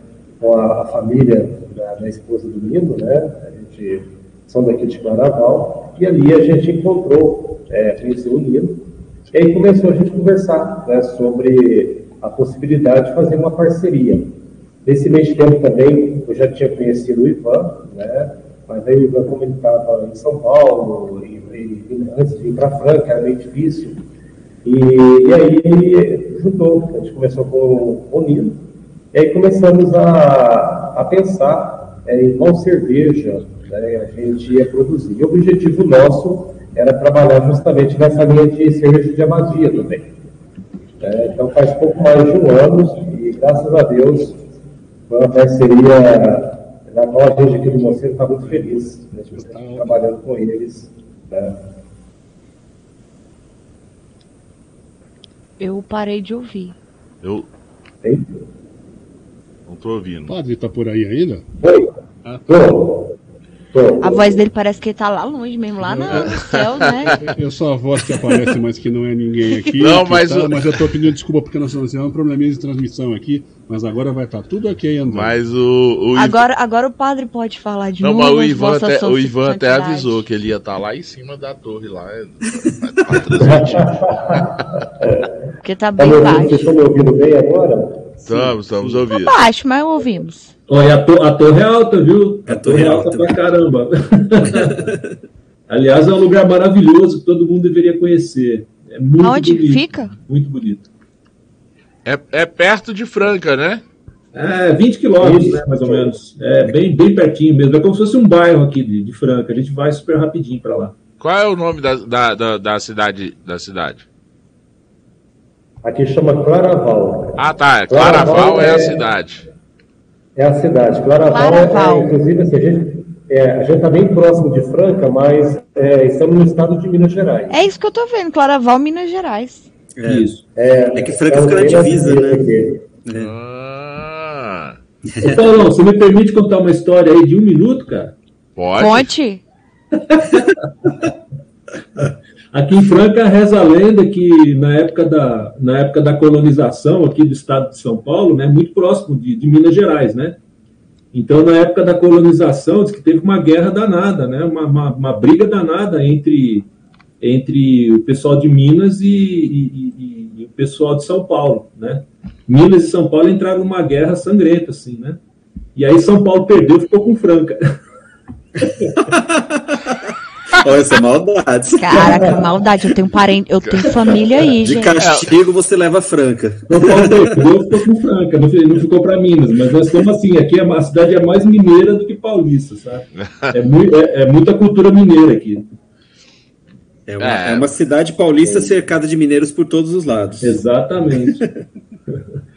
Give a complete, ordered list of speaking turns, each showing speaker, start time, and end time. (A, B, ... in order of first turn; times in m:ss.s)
0:00.4-0:14.3 A
0:14.8-0:24.0 A
0:24.6-0:40.1 A
0:41.0-0:44.4 A
0:45.1-0:51.6 A
0:49.3-0:49.9 B
0:55.6-0:56.8 C
0:58.0-0:58.3 A
0:59.7-1:00.3 D
1:00.3-1:01.4 B
1:01.6-1:01.9 A
1:02.2-1:02.5 B
1:02.5-1:03.1 A
1:03.7-1:04.4 A
1:04.0-1:07.2 C
1:05.8-1:06.5 B
1:06.2-1:07.3 D
1:07.0-1:15.4 B
1:09.8-1:10.8 D
1:15.1-1:16.4 D
1:16.1-1:20.2 C
1:18.0-1:24.5 D
1:23.4-1:25.3 A
1:25.6-1:26.7 C
1:26.0-1:28.2 A
1:28.2-1:29.3 D
1:29.1-1:30.5 C
1:30.7-1:34.9 E
1:32.4-1:33.4 F
1:34.5-1:34.9 F
1:35.7-1:40.9 E
1:39.2-1:40.1 C
1:42.0-1:43.8 D
1:44.3-1:50.9 E
1:45.2-1:46.1 A
1:51.2-1:54.0 D
1:55.8-1:59.0 A
1:57.4-1:59.4 D
2:00.4-2:07.5 A
2:01.3-2:02.1 C
2:07.5-2:09.6 C
2:10.0-2:10.3 F
2:10.0-2:10.4 E
2:10.6-2:12.8 A
2:11.0-2:12.4 F
2:13.0-2:13.3 F
2:13.1-2:14.8 D
2:15.1-2:15.7 F
2:15.2-2:18.1 E
2:18.6-2:19.1 D
2:18.8-2:19.4 C
2:19.9-2:20.9 E
2:22.0-2:30.4 E
2:31.1-2:36.7 E
2:37.2-2:45.2 E
2:45.7-2:47.7 E
2:48.6-2:48.9 E
2:49.0-2:52.5 F
2:51.8-2:55.0 C
2:54.6-2:57.5 F
2:55.0-2:55.3 D
2:56.7-3:05.7 E
3:03.2-3:03.5 D
3:07.1-3:10.6 F
3:07.2-3:07.7 D
3:08.4-3:08.7 A
3:10.4-3:11.4 E
3:11.2-3:11.6 F